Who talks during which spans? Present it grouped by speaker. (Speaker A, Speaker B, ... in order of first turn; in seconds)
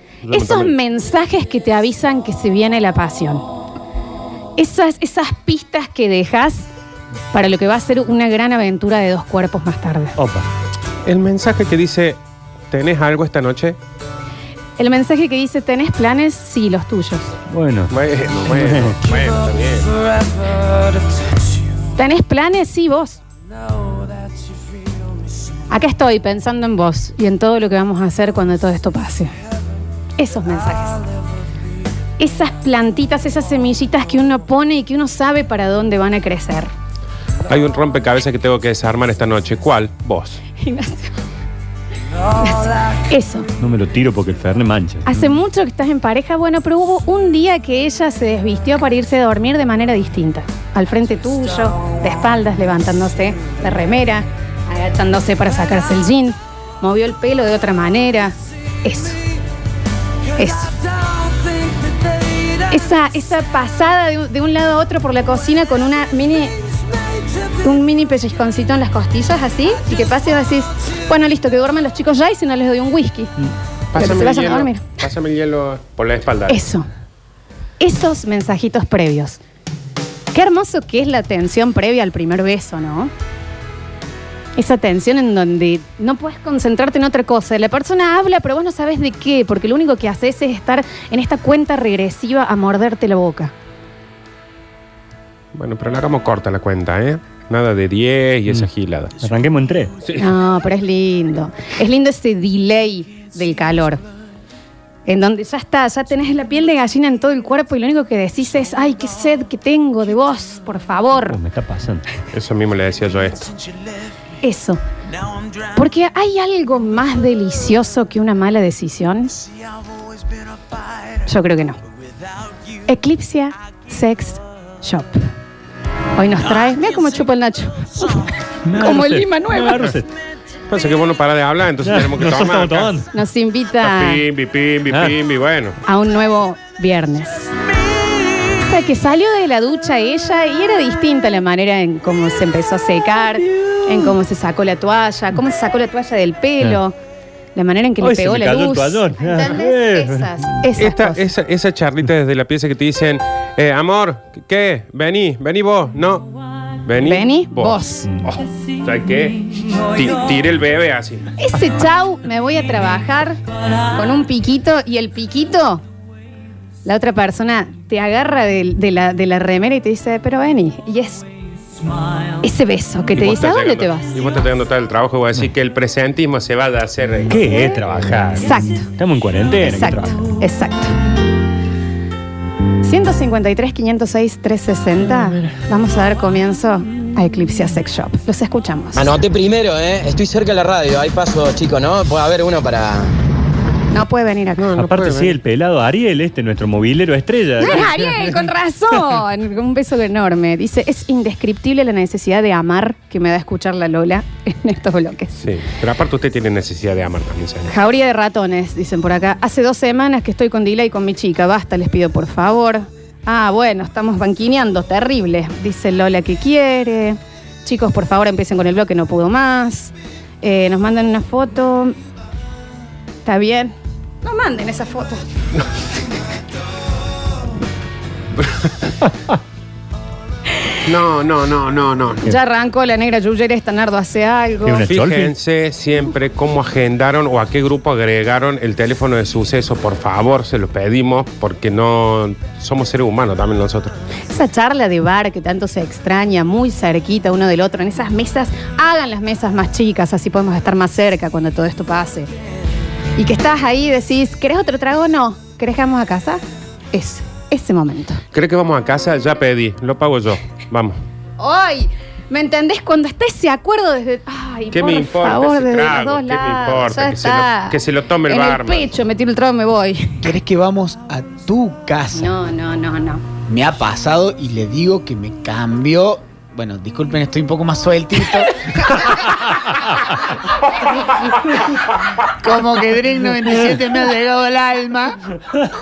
Speaker A: 0.2-0.7, 11.1-12.2, 12.7-13.8, 17.9-19.9, 37.5-40.4, 73.9-76.6, 95.5-99.1, 100.0-100.3, 112.3-113.5, 130.7-132.9, 133.8-135.8, 150.8-156.3, 156.8-161.3, 173.2-177.4, 194.6-195.4, 205.4-207.7, 230.9-232.2, 234.9-244.0, 258.3-261.0, 264.7-268.9
Speaker B: 0.3-3.4, 4.6-6.7, 7.3-10.2, 14.8-17.3, 22.0-23.2, 25.7-29.3, 30.2-31.0, 32.2-36.7, 40.6-41.1, 42.4-43.5, 45.0-59.2, 60.4-60.7, 62.7-66.6, 67.6-73.3, 74.0-74.8, 76.5-76.9, 77.8-79.4, 80.3-83.1, 84.6-93.5, 100.2-104.0, 105.1-111.4, 114.4-114.8, 115.8-119.3, 121.3-121.8, 122.9-125.2, 126.2-129.9, 133.1-134.2, 135.9-137.5, 138.7-146.9, 147.6-151.2, 157.1-158.1, 161.4-163.4, 163.9-165.8, 166.8-171.3, 172.4-174.1, 177.4-177.8, 178.4-178.9, 179.6-180.9, 182.8-189.1, 193.9-194.7, 197.6-205.4, 207.7-222.0, 223.2-225.2, 232.2-234.8, 244.3-252.3, 253.2-258.2, 261.4-270.3, 272.1-273.2
Speaker C: 10.2-10.5, 17.5-17.9, 18.5-19.0, 43.6-45.2, 99.2-99.9, 111.3-112.0, 128.7-130.1, 131.8-133.1, 134.9-135.2, 148.0-150.3, 177.3-180.3, 194.8-198.3, 234.7-235.3
Speaker D: 189.0-193.1
Speaker E: 270.2-272.3, 273.5-279.1, 282.4-285.2